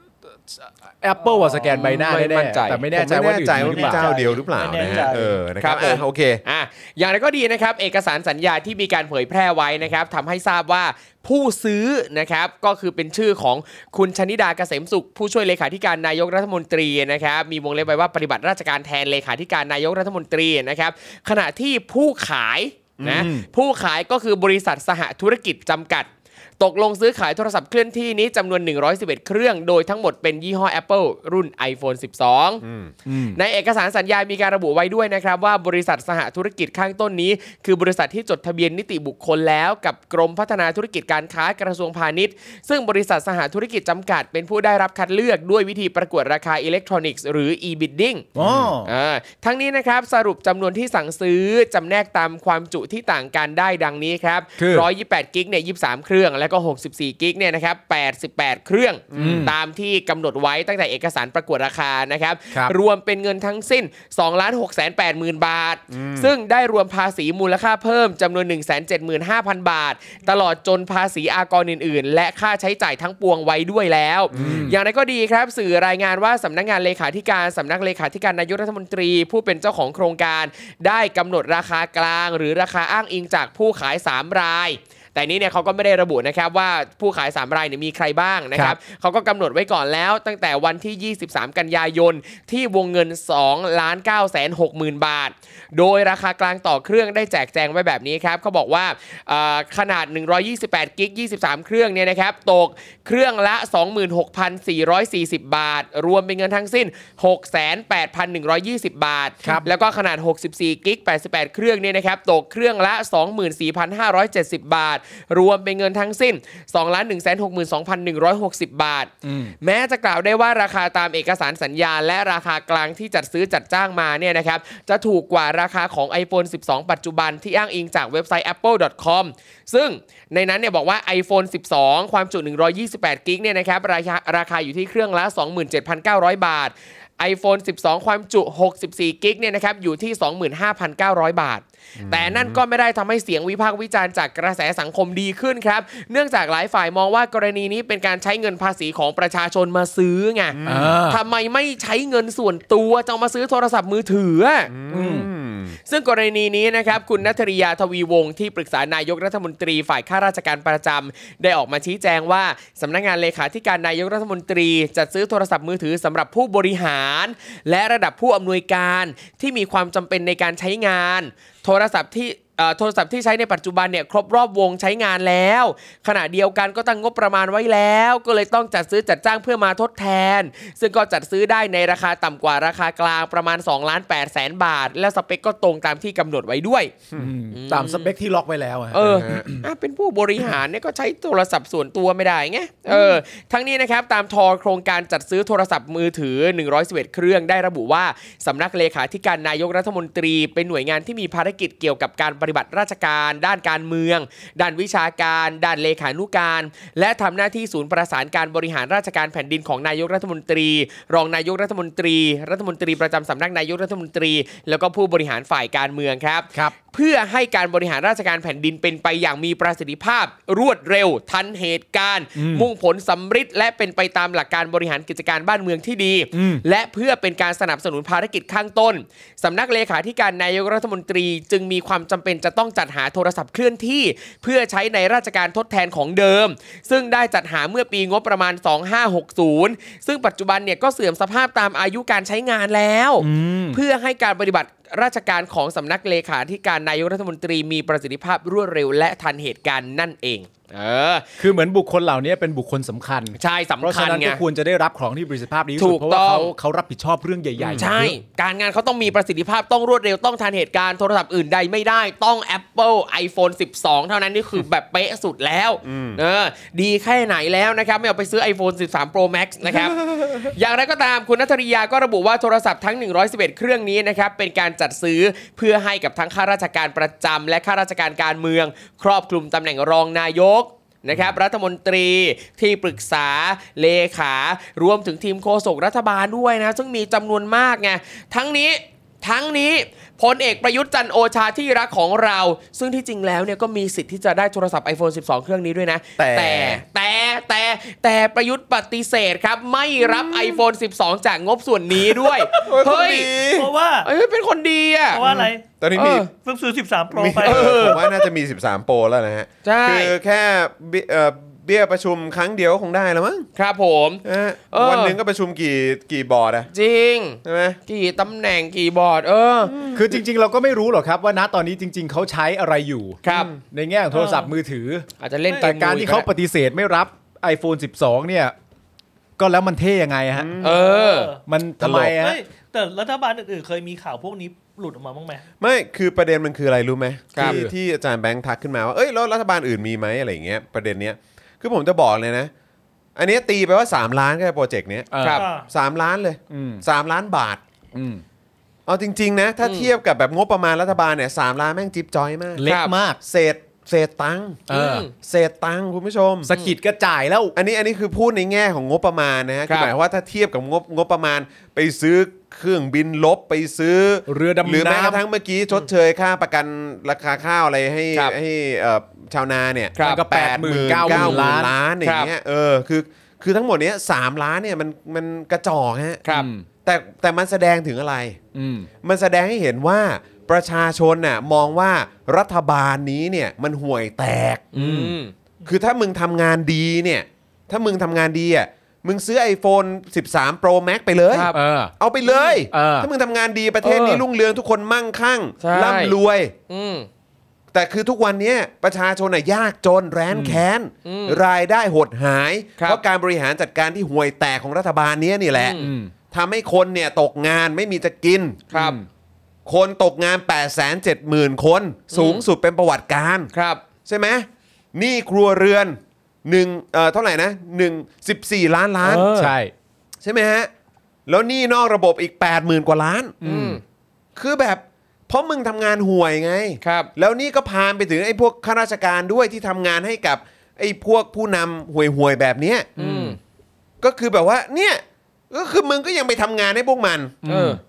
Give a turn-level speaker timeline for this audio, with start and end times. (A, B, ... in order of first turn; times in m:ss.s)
0:00.5-0:04.2 A
0:01.5-0:02.8 B
0:02.9-0:06.4 C
0:03.6-0:05.4 D
0:05.6-0:32.6 B
0:23.0-0:23.3 C
0:23.1-0:23.4 A
0:32.6-0:32.9 C
0:33.0-0:33.4 A
0:33.4-0:48.3 B
0:48.4-0:48.9 A
0:48.4-0:48.7 C
0:48.8-2:34.7 B
0:54.6-0:54.9 A
0:59.1-0:59.5 C
0:59.2-0:59.5 A
1:05.9-1:06.3 C
1:14.3-1:14.7 C
1:14.3-1:14.8 A
1:49.4-1:49.7 A
1:59.2-1:59.5 A
2:22.0-2:22.6 C
2:30.5-2:31.0 C
2:30.6-2:31.2 A
2:34.7-2:35.8 C
2:34.9-2:35.3 A
2:35.9-3:07.0 B
3:07.1-3:09.6 A
3:07.5-3:08.1 B
3:08.9-4:11.3 B
3:09.0-3:09.4 C
3:42.4-3:42.7 A
3:46.3-3:46.6 A
4:03.2-4:03.8 A
4:11.4-4:18.2 A
4:13.4-4:14.4 B
4:15.8-4:16.5 B
4:17.6-5:03.3 B
4:25.8-4:26.2 C
4:29.7-4:30.0 C
4:56.2-4:56.8 C
5:00.0-5:00.6 C
5:02.5-5:03.7 C
5:03.5-5:04.1 D
5:04.0-5:05.2 B
5:05.1-5:05.6 D
5:05.2-5:06.3 C
5:05.9-5:06.3 B
5:06.4-5:08.1 D
5:07.1-5:13.5 C
5:07.4-5:08.0 B
5:09.6-5:10.1 B
5:13.6-5:15.2 B
5:14.2-5:16.7 C
5:16.7-5:19.8 B
5:17.4-5:17.8 C
5:19.7-5:20.1 C
5:19.9-5:25.1 A
5:23.2-5:23.5 B
5:23.3-5:23.6 C
5:24.1-5:24.5 D
5:25.2-5:26.3 B
5:25.6-5:28.5 A
5:29.4-5:30.5 A
5:30.4-5:30.8 C
5:30.6-5:31.3 B
5:30.6-5:31.4 D
5:31.4-5:32.4 A
5:32.1-5:35.5 D
5:35.6-5:42.5 C
5:37.4-5:37.7 A
5:43.2-5:47.6 C
5:45.1-5:45.4 A
5:45.2-5:45.4 B
5:45.3-5:45.7 D
5:46.5-5:46.8 A
5:47.9-5:48.2 A
5:48.9-5:52.6 C
5:49.6-5:49.9 B
5:52.6-5:53.2 A
5:52.6-5:52.9 B
5:53.2-5:56.5 C
5:54.7-5:55.1 A
5:54.7-5:55.1 B
5:56.4-5:57.5 A
5:57.6-6:16.2 C
6:04.3-6:05.2 A
6:10.0-6:10.2 B
6:10.0-6:11.7 A
6:11.0-6:12.3 B
6:16.3-6:16.6 A
6:16.8-6:18.4 C
6:18.5-6:18.9 A
6:19.0-6:24.7 C
6:24.7-6:25.3 B
6:24.7-6:25.2 A
6:25.6-6:36.5 C
6:31.3-6:31.6 B
6:31.5-6:31.9 A
6:32.3-6:32.6 B
6:32.7-6:33.1 A
6:33.8-6:34.2 B
6:35.6-6:36.1 B
6:36.7-6:37.1 B
6:37.7-6:48.6 C
6:40.3-6:40.6 A
6:41.0-6:41.4 B
6:45.5-6:45.9 B
6:45.8-6:46.1 A
6:48.7-6:49.0 B
6:48.7-6:49.0 A
6:49.6-6:53.5 C
6:52.1-6:52.4 B
6:53.5-6:53.8 B
6:54.0-6:59.3 C
6:59.0-6:59.6 B
6:59.3-6:59.7 A
7:00.2-7:00.7 C
7:01.3-7:03.4 C
7:03.4-7:03.8 A
7:03.4-7:03.8 B
7:04.4-7:12.9 C
7:06.8-7:07.1 B
7:13.0-7:13.4 A
7:13.0-7:13.4 B
7:14.0-7:17.4 C
7:17.4-7:17.8 A
7:17.4-7:17.8 B